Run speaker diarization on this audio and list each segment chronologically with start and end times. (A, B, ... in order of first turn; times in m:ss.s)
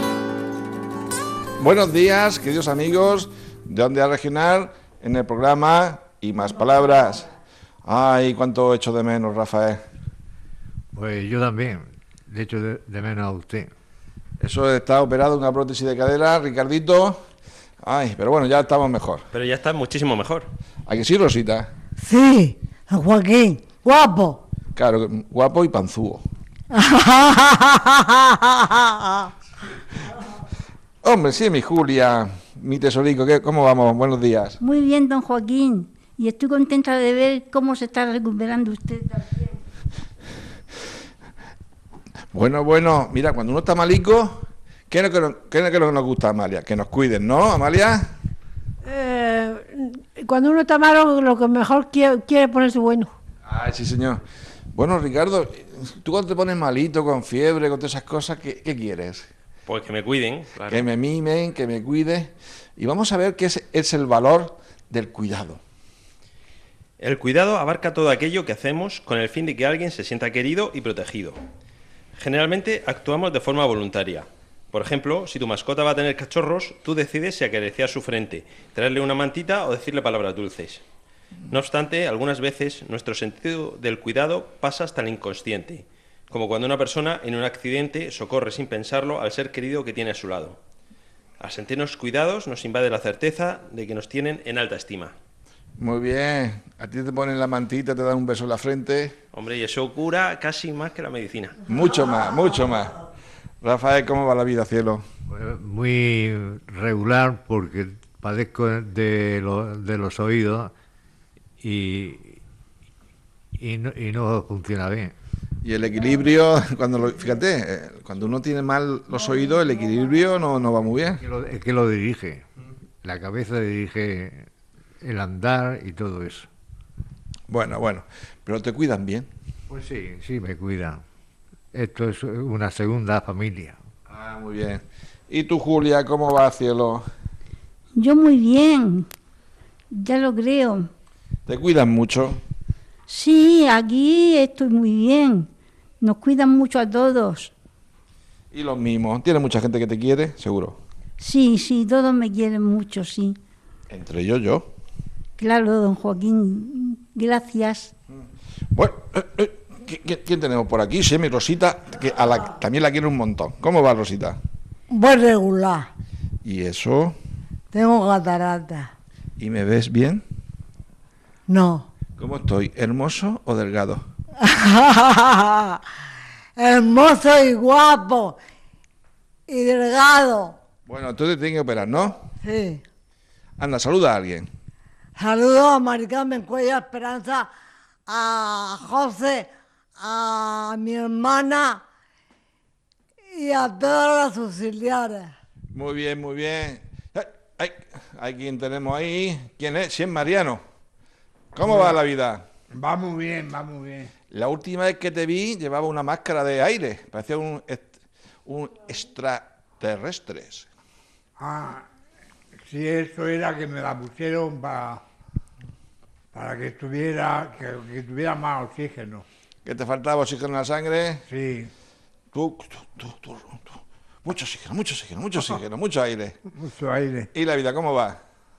0:01.6-0:07.3 A
0:07.8-0:09.8 A
0:10.9-0:13.7 B
0:14.4-0:17.2 A
0:17.8-0:19.3 A
0:19.3-0:20.5 C
0:20.9-0:21.7 A
0:22.0-0:24.4 D
0:24.8-0:26.2 A
0:26.7-0:29.3 D
0:31.0-0:34.6 A
0:34.6-0:39.5 E
0:42.3-0:48.0 A
0:48.8-0:53.1 F
0:53.5-0:54.2 A
0:54.7-0:59.3 A
0:59.7-1:00.9 C
1:00.7-1:05.6 A
1:07.0-1:11.4 C
1:12.2-1:20.8 C
1:21.5-1:30.6 C
1:31.4-1:35.1 C
1:35.8-1:39.2 A
1:39.3-1:41.6 C
1:41.7-1:43.0 A
1:43.6-1:45.0 A
1:45.3-1:50.7 B
1:51.6-1:52.4 B
1:53.6-1:55.1 B
1:55.6-2:01.2 A
2:01.1-2:02.4 B
2:03.0-2:04.5 B
2:05.0-2:06.5 B
2:07.5-2:09.3 A
2:09.7-2:11.0 B
2:11.7-2:13.8 B
2:14.1-2:17.1 A
2:17.9-2:19.1 E
2:19.9-2:20.9 E
2:21.4-2:22.4 A
2:23.1-2:25.5 E
2:26.0-2:27.5 E
2:28.5-2:30.8 A
2:31.2-2:33.4 E
2:33.9-2:34.7 A
2:35.4-2:37.9 E
2:38.7-2:44.4 A
2:44.9-2:45.9 D
2:46.4-2:47.2 A
2:47.7-2:48.9 D
2:49.4-2:50.2 A
2:51.5-2:51.9 D
2:52.2-2:54.0 A
2:54.4-2:55.8 D
2:56.6-2:58.4 D
2:59.5-3:00.6 D
3:00.8-3:02.2 A
3:02.3-3:02.8 D
3:03.6-3:04.5 A
3:05.2-3:07.5 D
3:08.1-3:11.8 D
3:13.3-3:15.3 D
3:15.7-3:20.6 A
3:21.5-3:22.4 A
3:22.7-3:24.1 G
3:24.3-3:30.7 A
3:31.4-3:31.8 G
3:32.6-3:35.0 G
3:36.3-3:39.2 G
3:39.6-3:41.2 A
3:41.3-3:41.7 G
3:42.3-3:46.4 A
3:46.5-3:47.3 G
3:47.3-3:48.2 A